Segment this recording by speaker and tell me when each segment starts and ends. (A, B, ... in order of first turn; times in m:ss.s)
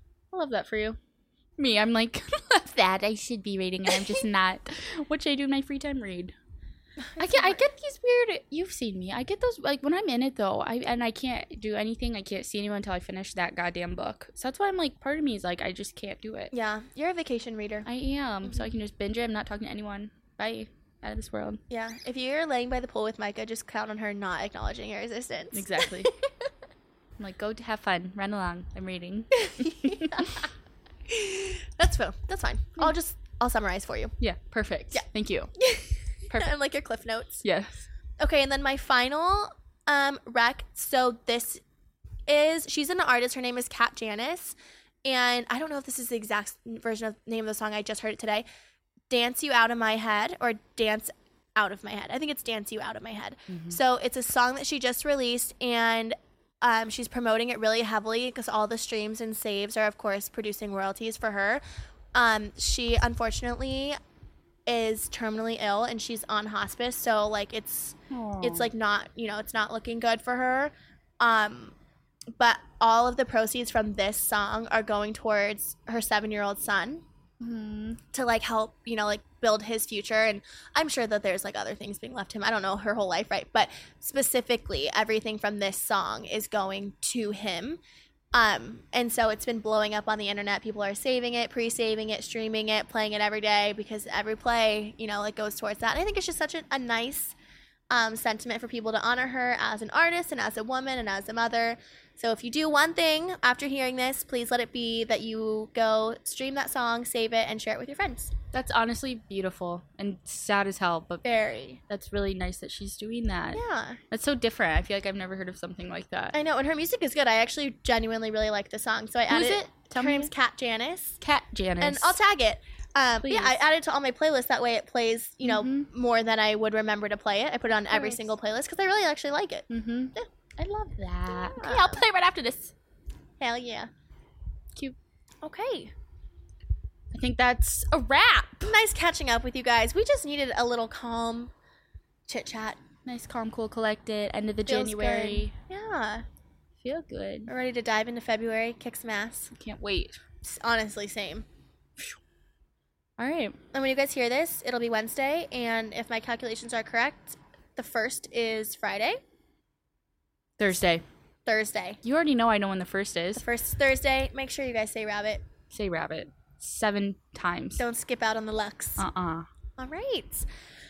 0:00.3-0:01.0 A
0:01.6-0:06.3 A
0:07.0-0:07.6 B
0:07.2-0:16.5 A
0:16.5-0:17.9 B
0:17.8-0:21.6 A
0:21.7-0:26.3 B
0:25.5-0:26.1 A
0:27.2-0:30.2 A
0:29.4-0:30.5 B
0:31.1-0:34.1 B
0:34.2-0:35.5 A
0:35.6-0:37.4 B
0:37.4-0:37.9 A
0:38.2-0:41.6 B
0:42.3-0:48.4 B
0:49.1-1:01.6 B
0:53.5-0:53.8 A
1:02.1-1:04.0 B
1:04.7-1:11.7 B
1:08.1-1:08.7 A
1:12.4-1:17.0 B
1:17.4-1:18.0 A
1:18.1-1:27.8 B
1:28.3-1:37.3 B
1:37.9-1:48.3 B
1:48.5-1:51.2 A
1:51.2-1:51.8 B
1:51.9-1:56.4 A
1:53.5-1:54.0 B
1:56.3-2:01.2 B
1:59.3-2:00.3 A
2:01.2-2:02.2 A
2:01.8-2:09.6 B
2:03.2-2:03.6 A
2:05.4-2:05.9 A
2:07.9-2:08.3 A
2:09.7-2:12.7 A
2:11.3-2:12.0 B
2:13.4-2:13.9 B
2:15.4-2:15.9 B
2:17.1-2:18.8 A
2:18.6-2:21.5 B
2:22.3-2:22.8 B
2:23.0-2:25.5 A
2:24.6-2:26.2 B
2:26.8-2:27.5 A
2:27.5-2:29.5 B
2:29.5-2:30.2 A
2:30.4-2:31.4 B
2:33.2-2:33.6 A
2:33.7-2:39.2 B
2:40.6-2:41.0 A
2:41.4-2:42.0 B
2:42.0-2:43.4 A
2:43.4-2:45.4 B
2:45.7-2:47.8 A
2:47.8-2:49.0 B
2:49.0-2:49.5 A
2:49.8-2:50.4 B